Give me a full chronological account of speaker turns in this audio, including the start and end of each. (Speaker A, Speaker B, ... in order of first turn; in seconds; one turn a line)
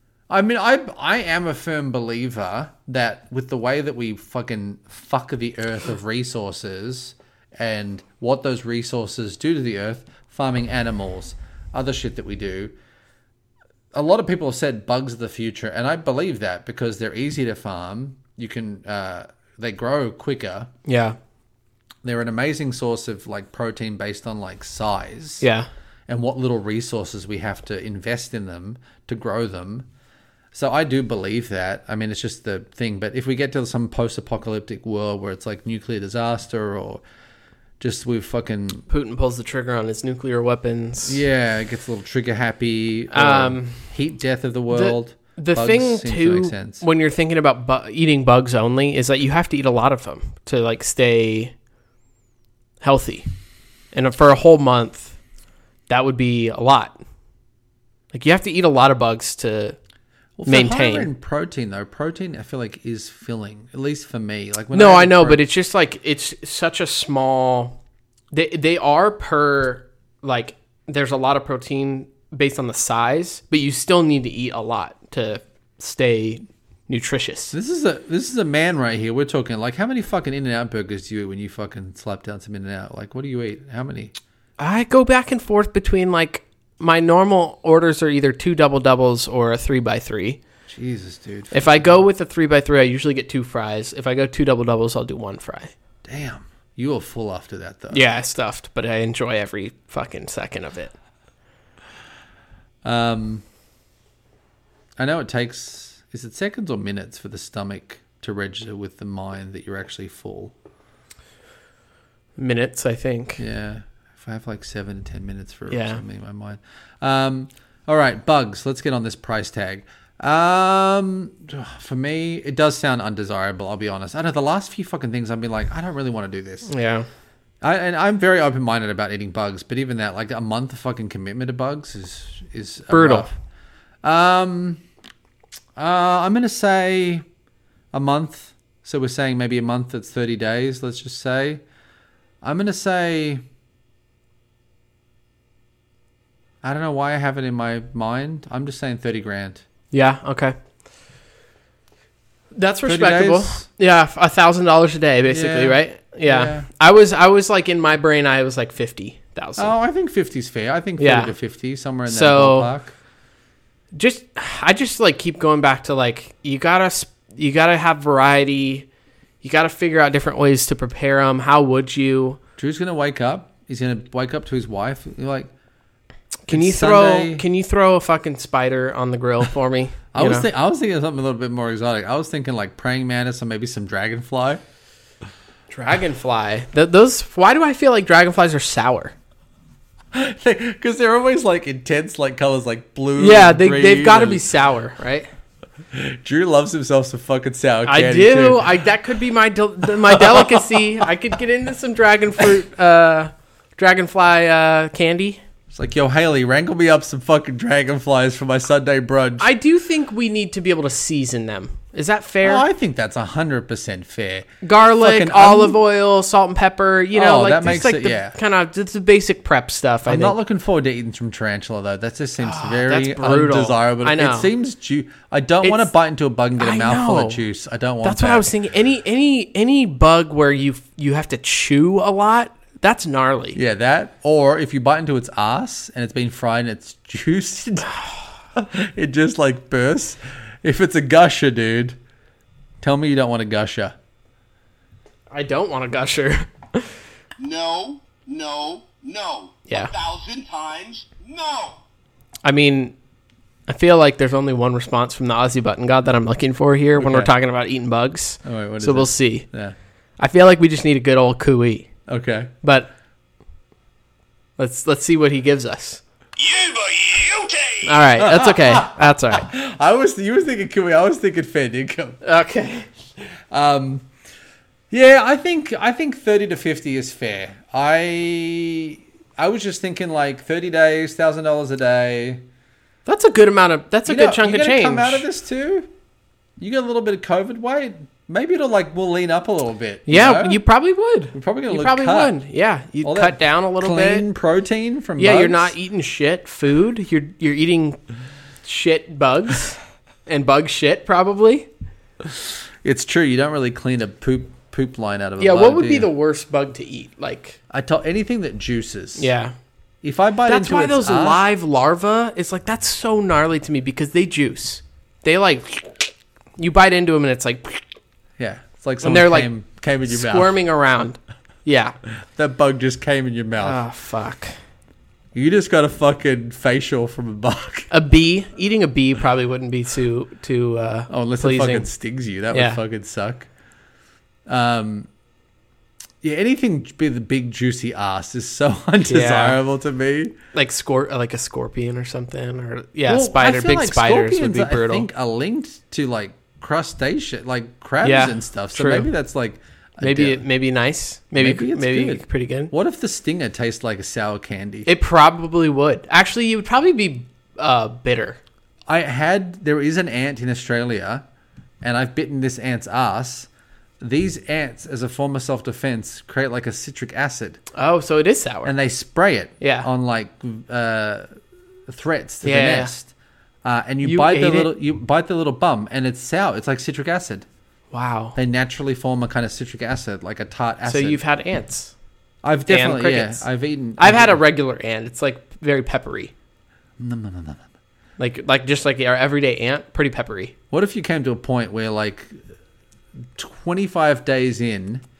Speaker A: 0.3-12.8
Speaker A: 13.9-20.7
Speaker B: 20.9-21.2
Speaker A: 22.0-25.4
Speaker B: 25.4-25.7
Speaker A: 26.1-29.9
Speaker A: 30.5-37.0
Speaker A: 37.8-38.9
Speaker B: 38.9-41.2
Speaker A: 41.1-46.8
Speaker B: 43.1-43.9
Speaker B: 44.7-51.5
Speaker B: 52.8-53.3
Speaker B: 53.9-55.2
Speaker B: 55.9-57.0
Speaker B: 58.1-59.8
Speaker A: 60.4-65.4
Speaker B: 60.5-61.1
Speaker B: 64.7-67.8
Speaker B: 68.3-77.5
Speaker A: 77.5-84.2
Speaker B: 84.6-90.4
Speaker A: 90.7-92.0
Speaker B: 91.5-95.7
Speaker A: 96.0-98.0
Speaker B: 97.9-100.9
Speaker A: 102.8-103.4
Speaker A: 105.0-110.5
Speaker B: 112.4-113.4
Speaker A: 113.4-126.7
Speaker B: 115.7-116.0
Speaker B: 126.7-127.1
Speaker A: 127.6-133.3
Speaker B: 132.9-133.3
Speaker A: 134.0-134.8
Speaker A: 135.8-137.2
Speaker A: 137.9-141.6
Speaker A: 142.4-143.4
Speaker A: 146.6-149.6
Speaker B: 149.9-150.6
Speaker B: 152.6-159.7
Speaker A: 152.8-153.7
Speaker A: 155.3-156.7
Speaker A: 159.6-162.9
Speaker B: 161.0-161.3
Speaker B: 162.1-162.7
Speaker B: 163.9-168.9
Speaker B: 169.4-172.4
Speaker A: 172.6-175.5
Speaker B: 176.5-180.5
Speaker A: 176.5-177.4
Speaker A: 180.1-184.6
Speaker B: 185.7-189.2
Speaker A: 190.1-194.4
Speaker B: 193.2-195.3
Speaker A: 195.9-198.8
Speaker B: 197.9-205.4
Speaker A: 199.8-201.0
Speaker A: 205.7-209.5
Speaker B: 209.4-212.7
Speaker A: 212.4-215.8
Speaker B: 214.6-220.4
Speaker A: 217.1-218.4
Speaker A: 220.1-228.5
Speaker B: 222.4-224.5
Speaker B: 225.6-225.9
Speaker B: 226.6-227.5
Speaker B: 228.0-233.6
Speaker A: 233.6-237.9
Speaker A: 238.5-242.0
Speaker A: 242.8-244.0
Speaker B: 245.3-246.9
Speaker C: 247.4-251.8
Speaker B: 249.7-249.9
Speaker B: 252.4-252.9
Speaker B: 253.7-259.5
Speaker A: 257.0-257.3
Speaker A: 258.4-259.8
Speaker B: 260.2-261.9
Speaker A: 262.1-262.5
Speaker B: 262.6-262.9
Speaker B: 264.6-266.0
Speaker C: 266.4-267.9
Speaker B: 267.8-269.5
Speaker A: 268.2-272.2
Speaker B: 272.2-272.9
Speaker A: 273.5-274.1
Speaker A: 274.9-282.4
Speaker B: 283.1-285.3
Speaker A: 284.1-285.9
Speaker A: 286.6-290.6
Speaker B: 290.1-294.3
Speaker A: 291.3-292.4
Speaker A: 293.0-295.7
Speaker B: 295.2-298.0
Speaker B: 298.6-301.7
Speaker A: 302.2-306.1
Speaker B: 305.4-307.6
Speaker A: 307.7-309.3
Speaker B: 309.2-309.5
Speaker A: 310.0-311.4
Speaker B: 310.5-317.8
Speaker A: 318.4-320.5
Speaker B: 319.0-319.5
Speaker B: 320.1-322.0
Speaker A: 322.2-323.8
Speaker B: 323.6-324.6
Speaker A: 325.3-327.9
Speaker B: 327.9-331.9
Speaker A: 331.1-333.5
Speaker B: 332.5-332.8
Speaker A: 334.5-335.1
Speaker A: 336.2-340.4
Speaker B: 339.1-339.6
Speaker B: 340.5-345.1
Speaker A: 343.1-350.4
Speaker B: 348.0-349.1
Speaker B: 350.0-352.7
Speaker A: 351.4-354.9
Speaker B: 354.9-358.4
Speaker A: 358.9-361.3
Speaker A: 361.8-363.5
Speaker A: 364.0-367.6
Speaker B: 367.8-368.7
Speaker A: 368.6-371.4
Speaker B: 369.6-369.9
Speaker A: 371.9-373.1
Speaker B: 372.4-372.9
Speaker A: 373.6-377.4
Speaker B: 374.0-374.7
Speaker B: 377.9-378.4
Speaker A: 378.4-381.2
Speaker B: 380.9-381.9
Speaker A: 382.4-384.4
Speaker B: 382.7-386.3
Speaker A: 387.0-387.6
Speaker B: 388.2-390.5
Speaker A: 390.7-392.4
Speaker A: 393.4-395.0